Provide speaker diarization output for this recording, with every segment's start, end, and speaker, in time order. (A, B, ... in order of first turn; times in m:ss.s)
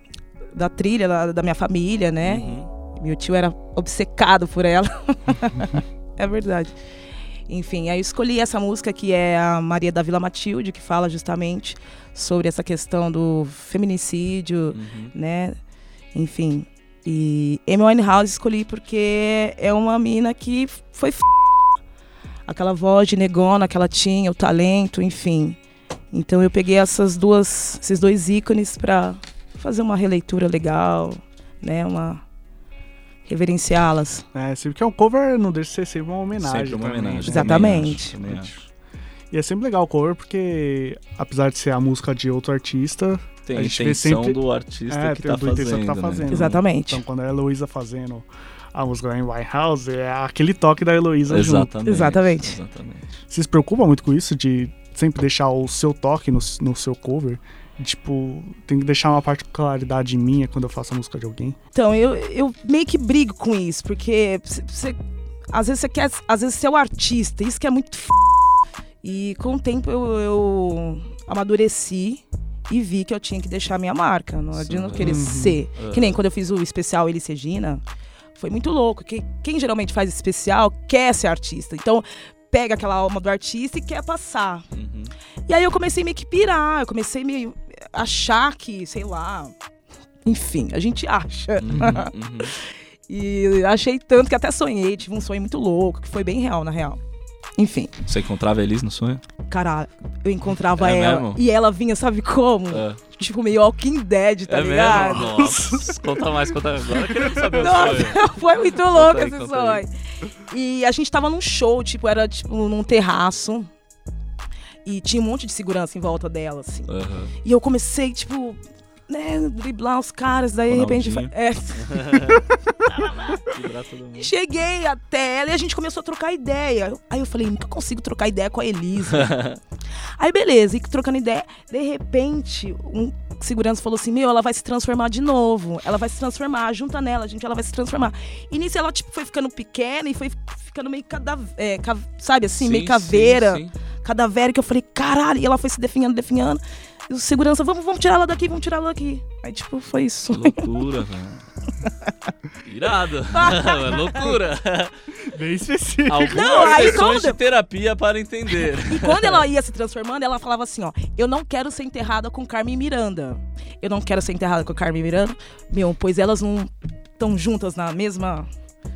0:00.5-0:06.8 A
0:02.2-0:02.7 B
0:07.5-0:15.6 A
0:14.7-0:15.1 B
0:16.1-0:21.3 A
0:22.5-0:25.6 A
0:26.1-0:32.2 A
0:33.2-0:34.2 A
0:34.3-0:38.6 C
0:36.4-0:38.5 B
0:37.2-0:38.1 A
0:39.3-0:51.7 C
0:43.4-0:46.5 B
0:46.3-0:47.0 A
0:51.3-0:53.2 B
0:51.8-0:52.6 A
0:53.3-1:01.6 C
1:01.7-1:05.0 A
1:05.5-1:08.4 A
1:09.0-1:17.8 A
1:14.6-1:16.2 B
1:15.0-1:15.6 C
1:18.3-1:24.6 A
1:24.7-1:25.1 B
1:25.5-1:29.5 A
1:30.2-1:37.0 A
1:31.6-1:32.5 B
1:37.6-1:37.9 A
1:38.0-1:39.2 B
1:39.5-1:45.4 A
1:40.8-1:41.4 B
1:42.7-1:43.0 B
1:44.5-1:48.2 B
1:44.8-1:46.0 C
1:47.2-1:47.6 C
1:47.5-1:49.9 A
1:48.7-1:49.8 B
1:50.5-1:53.7 A
1:54.8-1:56.9 A
1:56.9-1:57.3 B
1:57.4-2:03.4 A
2:00.7-2:04.3 B
2:04.2-2:09.4 A
2:09.1-2:09.6 B
2:10.2-2:30.6 A
2:22.6-2:23.7 B
2:30.3-2:31.4 B
2:32.6-2:34.9 B
2:33.3-2:34.3 A
2:35.3-2:37.0 C
2:36.1-2:39.4 B
2:36.3-2:37.4 A
2:38.5-2:48.5 A